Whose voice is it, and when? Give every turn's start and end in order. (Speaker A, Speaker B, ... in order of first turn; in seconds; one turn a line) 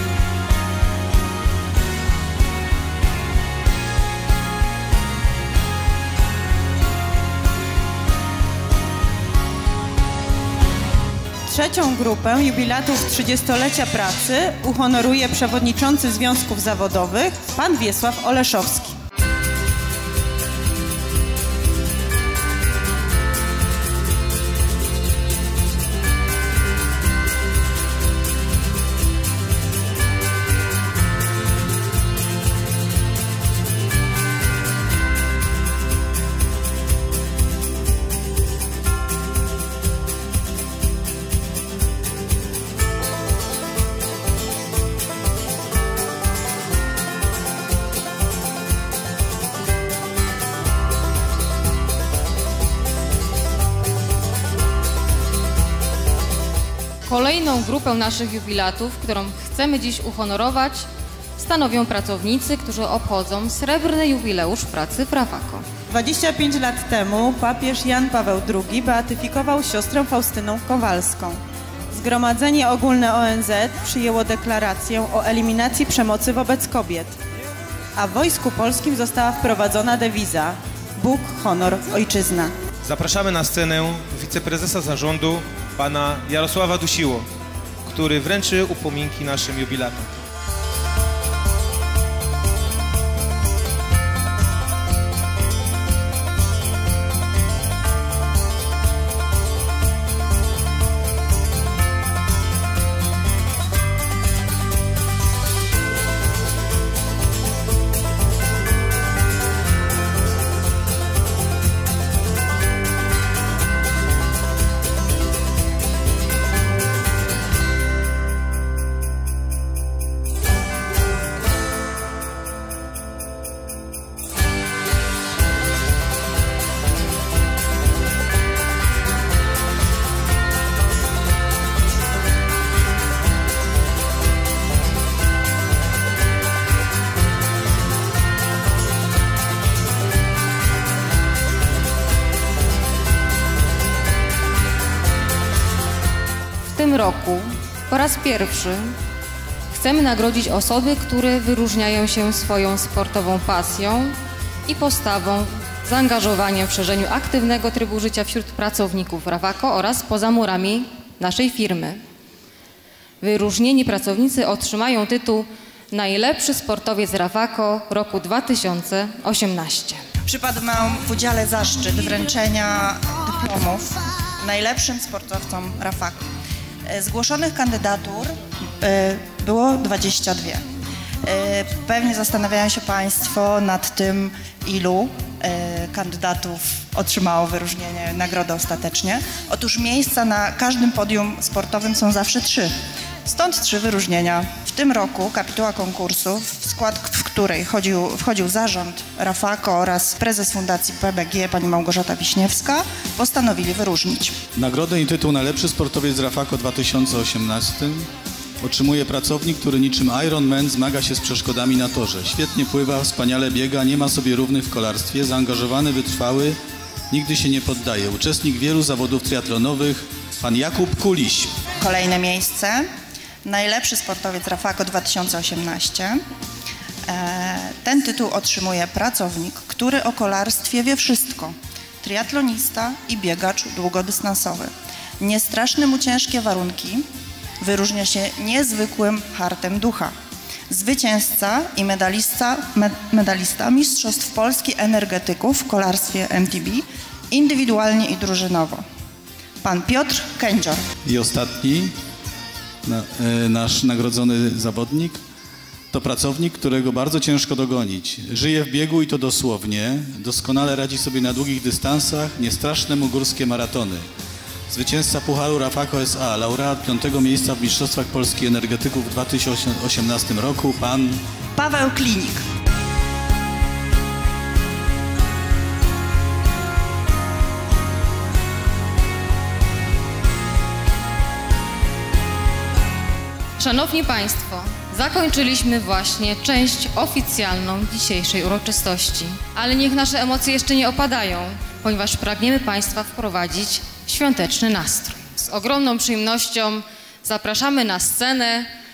Speaker A: 11.4-18.9
Speaker B: 57.0-65.7
Speaker A: 65.9-71.4
Speaker A: 71.9-77.2
Speaker A: 78.0-82.5
Speaker C: 82.8-87.3
Speaker C: 87.8-90.1
Speaker B: 146.7-148.9
Speaker B: 149.7-162.0
Speaker B: 163.2-170.0
Speaker D: 170.3-176.2
Speaker D: 176.9-180.6
Speaker D: 181.2-192.7
Speaker D: 193.2-204.4
Speaker E: 204.6-208.1
Speaker E: 208.6-216.6
Speaker E: 217.1-221.6
Speaker D: 221.8-222.8
Speaker D: 223.4-226.2
Speaker D: 227.1-237.1
Speaker D: 237.6-240.1
Speaker D: 240.7-248.8
Speaker D: 249.6-250.8
Speaker E: 251.0-251.9
Speaker E: 252.8-255.2
Speaker E: 255.9-264.0
Speaker E: 264.7-271.2
Speaker D: 271.6-272.4
Speaker B: 283.6-298.7